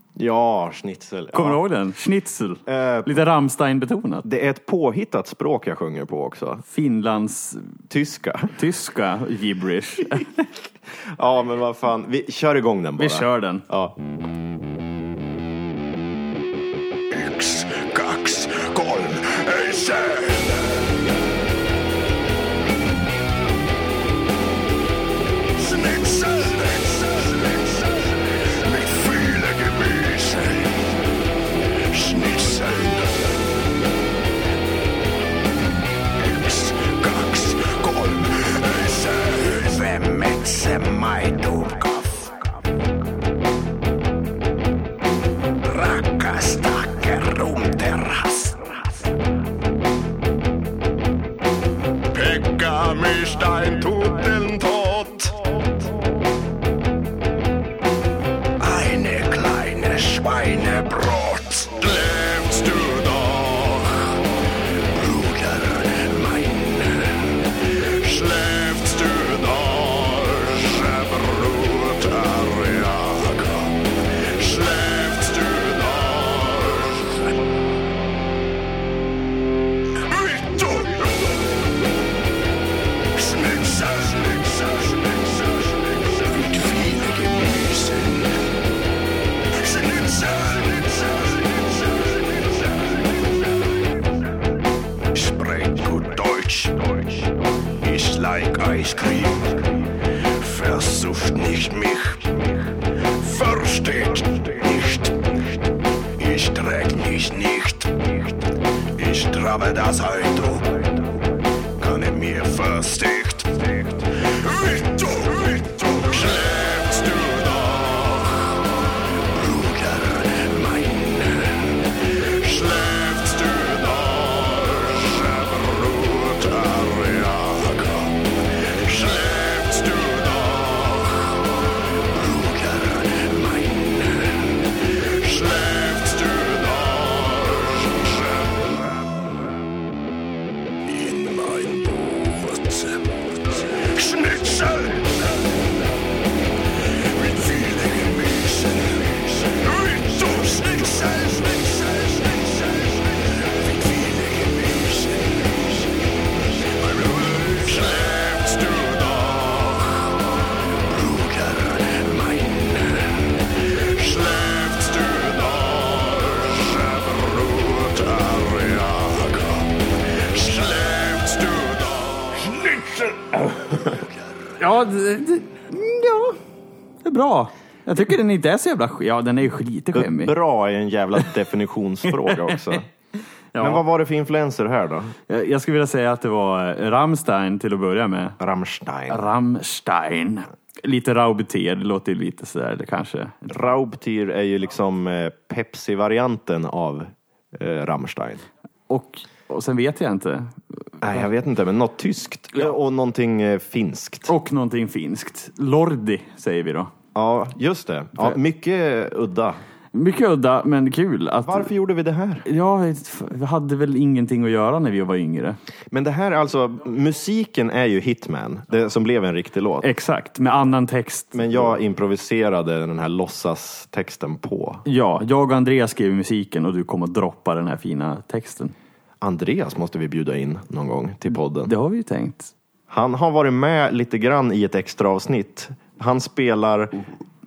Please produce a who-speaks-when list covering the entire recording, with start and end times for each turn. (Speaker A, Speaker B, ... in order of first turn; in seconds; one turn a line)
Speaker A: 0.1-1.6
Speaker B: 1.3-4.2
Speaker A: 2.7-3.2
Speaker A: 4.2-6.6
Speaker B: 6.7-7.6
Speaker A: 7.9-8.5
Speaker B: 8.6-10.4
Speaker A: 11.1-13.9
Speaker B: 13.0-13.6
Speaker C: 17.1-20.8
Speaker C: 25.6-30.9
Speaker C: 31.9-33.4
Speaker C: 36.2-42.5
Speaker C: 45.6-49.0
Speaker C: 52.1-55.4
Speaker C: 58.6-64.2
Speaker C: 64.9-77.4
Speaker C: 80.0-81.5
Speaker C: 83.1-88.4
Speaker C: 89.5-94.0
Speaker C: 95.1-97.3
Speaker C: 97.8-105.3
Speaker C: 106.2-108.3
Speaker C: 109.0-110.9
Speaker C: 111.8-139.3
Speaker C: 140.8-145.6
Speaker C: 147.0-155.9
Speaker C: 156.6-160.2
Speaker C: 160.8-174.2
Speaker B: 174.6-176.4
Speaker B: 177.0-180.3
Speaker A: 179.9-182.9
Speaker B: 182.5-182.8
Speaker B: 183.5-183.8
Speaker A: 183.6-185.1
Speaker B: 185.3-188.3
Speaker A: 188.4-189.2
Speaker B: 189.1-193.7
Speaker A: 193.5-198.4
Speaker B: 198.9-200.6
Speaker A: 201.0-204.3
Speaker B: 204.3-206.9
Speaker A: 207.1-209.6
Speaker B: 209.9-211.7
Speaker A: 211.4-212.4
Speaker B: 212.4-215.6
Speaker A: 215.9-219.9
Speaker B: 219.8-221.7
Speaker A: 221.3-224.8
Speaker B: 224.8-228.7
Speaker A: 229.2-231.7
Speaker B: 231.6-232.5
Speaker A: 232.9-237.0